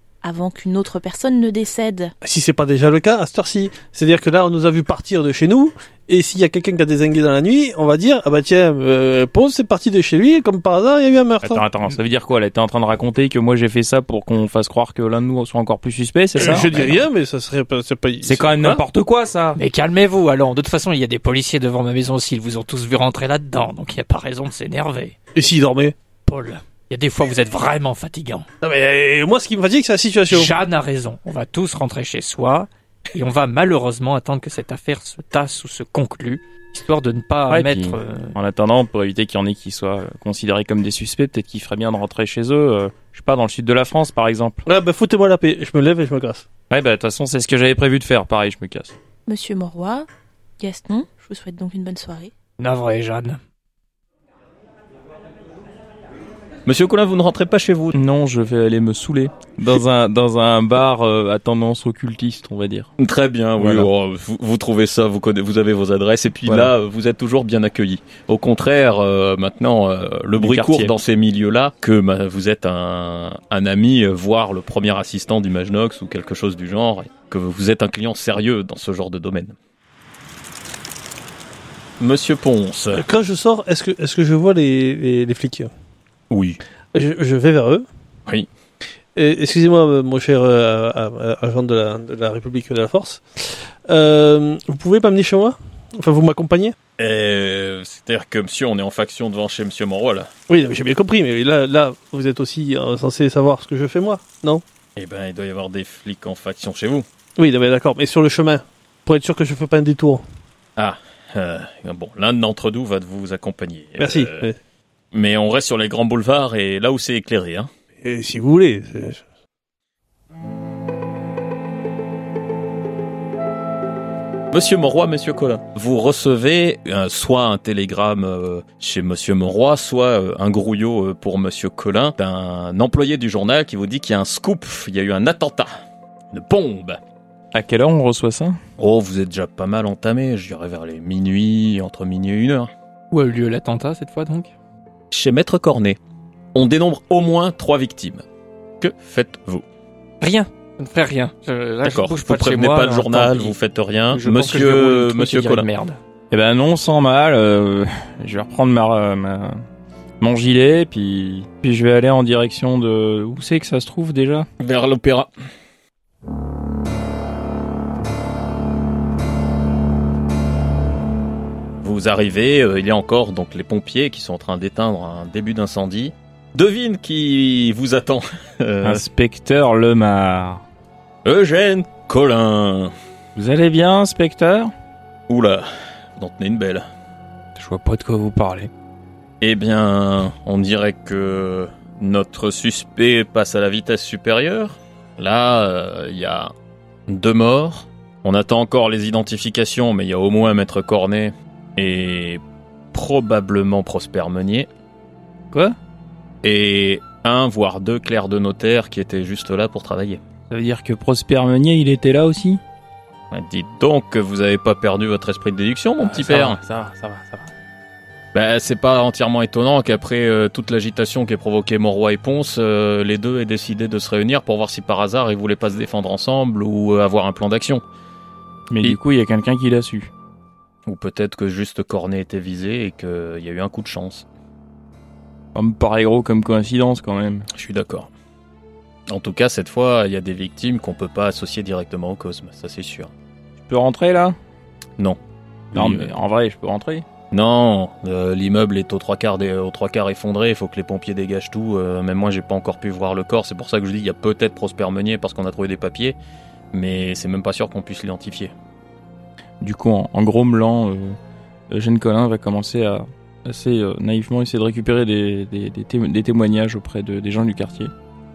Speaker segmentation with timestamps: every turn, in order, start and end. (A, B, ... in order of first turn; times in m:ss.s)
0:00.2-0:02.1 A
0:02.2-0:11.6 B
0:11.4-0:17.0 C
0:16.4-0:18.8 B
0:18.2-0:19.6 C
0:19.6-0:25.2 D
0:25.3-0:25.9 B
0:26.2-0:28.5 D
0:28.6-0:30.5 B
0:30.3-0:38.4 D
0:37.5-0:44.6 C
0:44.6-0:46.4 B
0:46.7-0:48.9 C
0:49.3-0:50.1 A
0:50.6-0:52.3 A
0:52.6-0:53.4 D
0:56.6-0:58.0 E
0:57.9-1:02.9 C
1:03.0-1:19.6 E
1:03.6-1:03.9 C
1:06.4-1:06.7 C
1:10.3-1:11.0 C
1:22.0-1:23.0 E
1:22.9-1:25.7 B
1:26.3-1:26.6 E
1:26.9-1:27.8 B
1:29.1-1:36.7 B
1:37.0-1:40.3 E
1:40.5-1:44.6 B
1:45.0-1:47.0 E
1:47.4-1:50.2 B
1:50.8-1:54.4 E
1:54.0-1:54.6 B
1:55.1-1:57.7 E
1:58.0-1:59.2 B
2:04.5-2:15.8 E
2:16.3-2:17.0 E
2:17.5-2:18.6 C
2:18.8-2:22.7 E
2:23.1-2:24.5 D
2:25.1-2:26.0 E
2:26.5-2:28.2 E
2:28.8-2:29.6 E
2:30.2-2:33.6 D
2:31.8-2:35.7 E
2:34.1-2:36.0 D
2:36.3-2:39.6 C
2:40.2-2:44.5 C
2:44.6-2:45.3 E
2:51.8-2:59.0 E
2:58.8-3:00.6 C
3:01.2-3:02.9 E
3:03.4-3:04.7 C
3:05.3-3:06.8 E
3:07.6-3:08.7 C
3:09.4-3:16.5 E
3:17.1-3:22.4 E
3:22.9-3:24.7 E
3:25.5-3:25.8 C
3:26.4-3:30.2 E
3:30.5-3:32.6 C
3:33.3-3:36.6 E
3:36.0-3:37.5 C
3:38.3-3:47.8 E
3:48.7-3:50.1 C
3:50.8-3:54.2 E
3:55.5-3:57.5 C
3:57.5-3:58.1 E
3:59.1-4:03.1 E
4:03.6-4:04.4 C
4:05.7-4:06.1 E
4:05.7-4:07.0 C
4:07.3-4:16.2 E
4:16.7-4:18.5 E
4:19.6-4:21.2 C
4:21.7-4:27.9 C